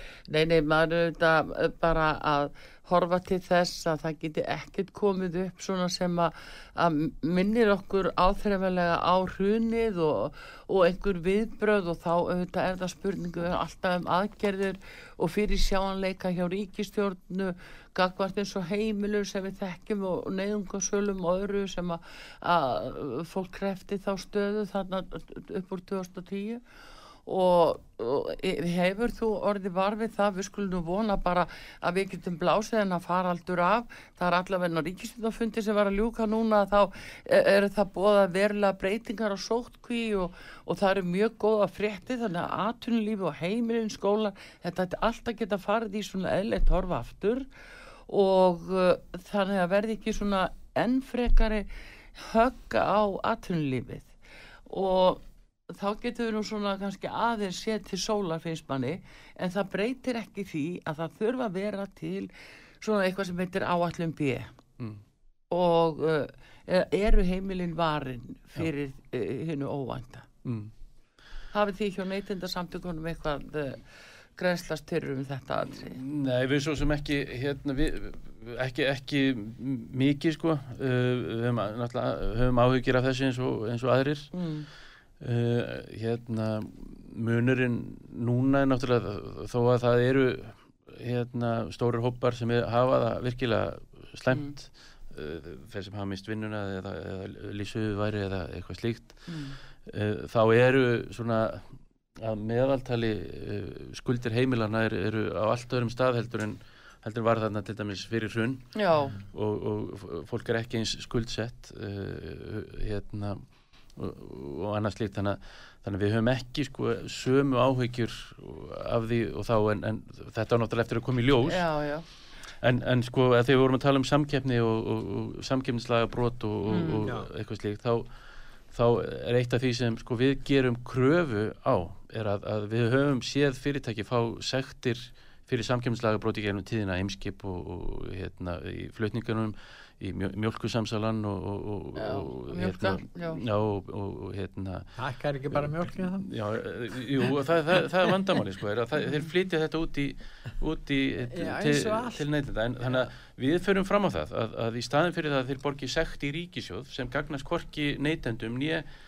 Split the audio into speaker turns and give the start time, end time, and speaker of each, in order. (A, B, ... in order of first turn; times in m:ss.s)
0:00.3-0:26.6 A
0:27.2-0:47.5 A
0:48.1-0:54.2 A
0:54.7-1:02.3 A
1:02.8-1:04.5 A
1:05.5-1:10.3 A
1:10.4-1:10.7 B
1:11.5-1:13.8 A
1:14.4-1:16.0 A
1:15.8-1:24.3 B
1:24.3-1:24.7 A
1:25.2-1:39.3 B
1:39.3-1:39.6 A
1:39.8-1:53.4 B
1:48.7-1:49.2 A
1:54.0-2:01.7 B
2:01.4-2:02.0 A
2:02.6-2:08.1 B
2:06.7-2:07.1 A
2:07.0-2:07.3 C
2:08.7-2:24.8 B
2:22.0-2:23.4 A
2:25.0-2:26.3 C
2:25.5-2:38.8 B
2:31.3-2:32.2 C